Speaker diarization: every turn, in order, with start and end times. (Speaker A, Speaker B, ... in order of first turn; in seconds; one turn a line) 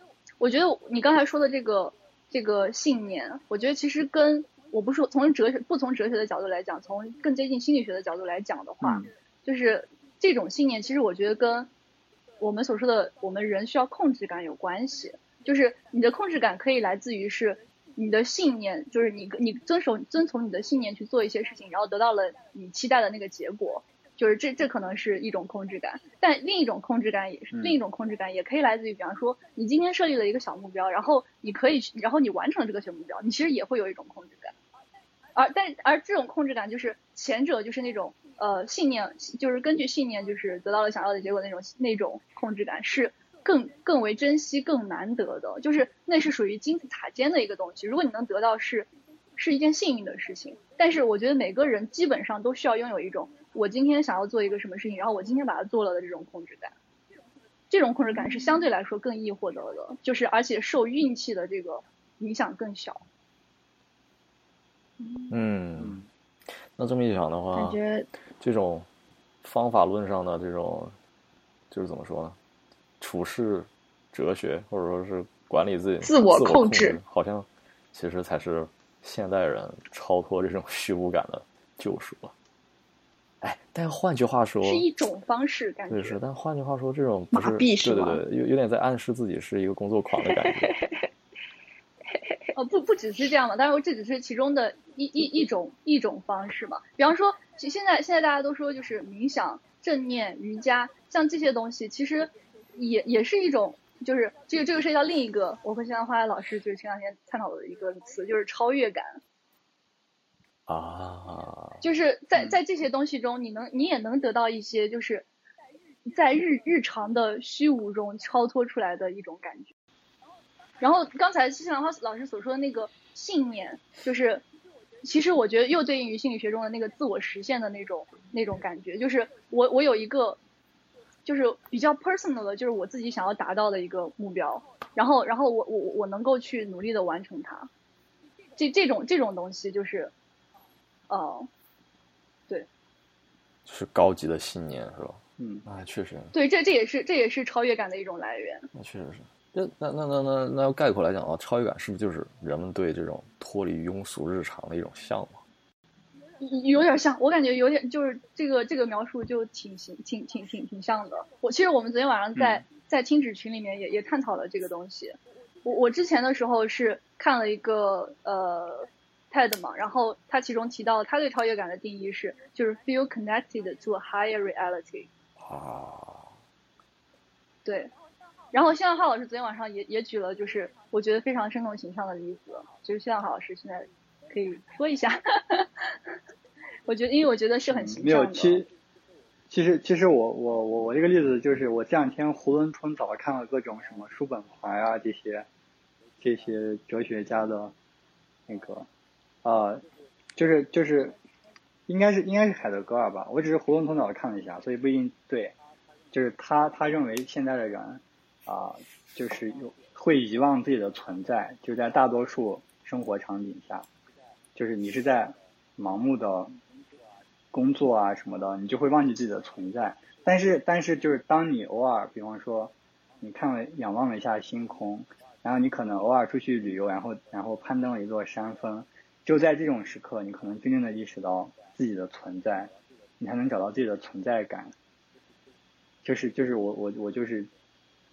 Speaker A: 0.4-11.7
Speaker B: 8.8-9.1
Speaker A: 12.4-34.5
Speaker B: 27.5-27.8
Speaker A: 35.4-56.7
Speaker A: 57.7-63.0
Speaker C: 58.2-58.7
Speaker D: 65.3-66.0
Speaker B: 65.8-66.1
Speaker D: 66.8-67.8
Speaker C: 67.5-68.1
Speaker D: 68.4-68.9
Speaker D: 69.4-71.0
Speaker D: 71.7-72.4
Speaker D: 73.0-82.3
Speaker C: 76.0-77.0
Speaker D: 83.4-84.9
Speaker A: 84.6-86.2
Speaker D: 85.9-90.7
Speaker C: 87.3-88.2
Speaker C: 90.2-91.1
Speaker C: 92.1-92.5
Speaker A: 92.5-109.2
Speaker D: 110.7-111.8
Speaker A: 111.8-115.2
Speaker A: 116.1-119.7
Speaker A: 120.8-124.4
Speaker A: 125.0-130.4
Speaker A: 131.3-137.7
Speaker A: 138.6-140.1
Speaker A: 141.1-141.5
Speaker D: 143.7-146.3
Speaker B: 145.4-145.7
Speaker A: 146.3-148.7
Speaker D: 148.7-155.4
Speaker A: 156.4-175.1
Speaker B: 162.3-162.6
Speaker D: 175.4-176.3
Speaker A: 177.7-177.9
Speaker A: 178.5-185.9
Speaker A: 186.9-188.7
Speaker B: 187.7-188.7
Speaker B: 189.5-195.5
Speaker B: 196.2-197.7
Speaker B: 198.5-198.9
Speaker B: 199.4-199.8
Speaker B: 200.4-201.2
Speaker B: 201.9-205.6
Speaker B: 206.1-213.9
Speaker B: 214.6-216.5
Speaker B: 217.5-234.7
Speaker B: 236.0-237.5